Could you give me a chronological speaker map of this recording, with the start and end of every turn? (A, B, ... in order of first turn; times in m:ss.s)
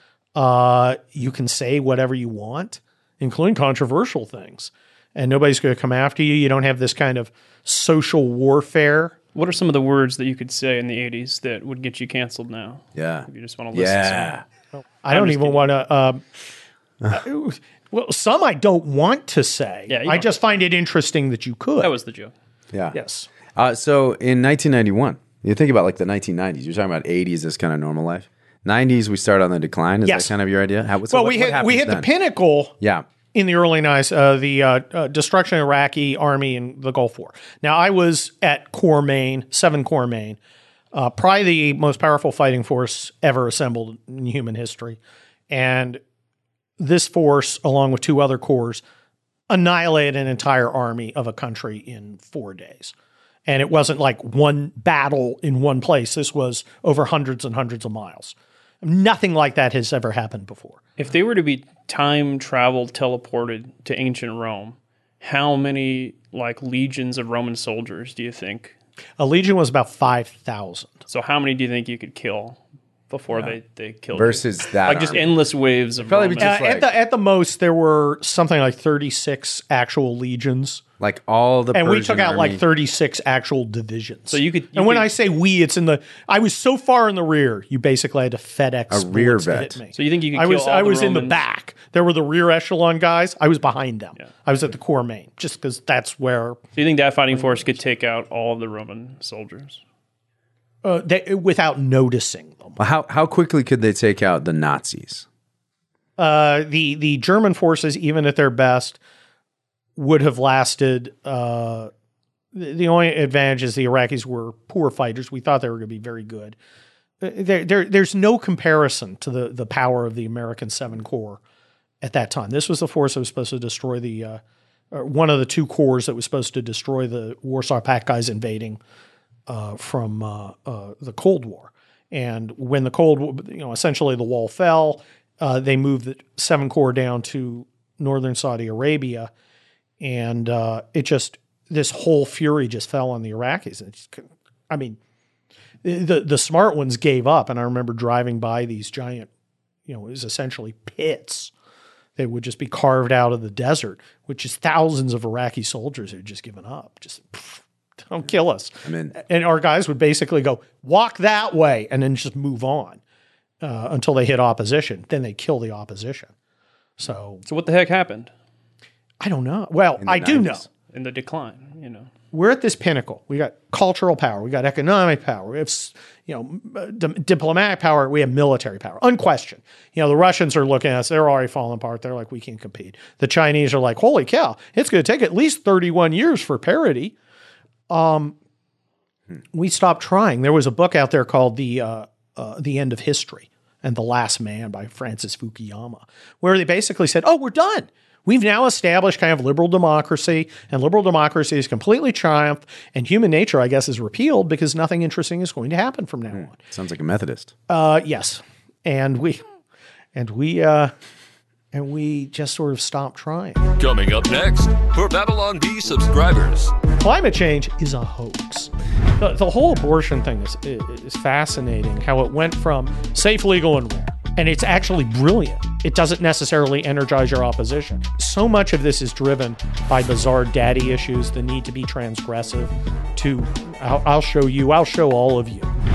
0:00.4-0:09.2 A
0:09.3-0:14.4 B
0:13.0-0:14.4 C
0:15.0-0:16.2 A
0:15.1-0:15.6 B
0:17.1-0:21.9 A
0:19.9-0:20.3 B
0:21.8-0:22.3 B
0:22.7-0:23.0 C
0:22.9-0:23.3 A
0:23.6-0:32.1 C
0:30.0-0:30.4 A
0:31.1-0:32.8 A
0:32.8-0:33.1 C
0:33.3-0:40.4 A
0:40.9-0:46.0 A
0:46.8-0:48.8 A
0:49.5-0:52.9 A
0:53.5-1:00.8 A
1:01.0-1:08.8 B
1:09.2-1:11.0 A
1:11.1-1:16.6 B
1:14.1-1:15.4 C
1:16.0-1:16.9 C
1:16.4-1:20.8 A
1:21.0-1:22.6 C
1:21.7-1:36.6 A
1:24.3-1:25.1 B
1:28.9-1:29.8 C
1:29.9-1:31.4 B
1:36.8-1:39.8 B
1:40.8-1:42.8 A
1:42.8-1:45.3 C
1:46.2-1:49.0 A
1:50.0-1:51.9 A
1:52.5-1:56.6 A
1:57.2-2:01.4 A
2:02.0-2:04.4 A
2:04.9-2:08.8 A
2:09.5-2:19.3 A
2:20.0-2:25.0 A
2:25.8-2:29.3 A
2:29.9-2:31.5 A
2:32.2-2:43.0 A
2:38.8-2:39.2 C
2:43.6-2:46.3 A
2:47.0-2:47.4 A
2:47.4-2:48.3 B
2:49.2-2:50.7 A
2:50.0-2:50.6 C
2:50.9-2:52.1 B
2:52.3-3:07.2 A
3:07.9-3:08.4 A
3:09.5-3:26.6 A
3:26.3-3:27.5 C
3:27.7-3:29.4 A
3:30.2-3:30.9 A
3:31.7-3:33.7 A
3:33.8-3:36.8 D
3:37.0-3:55.7 A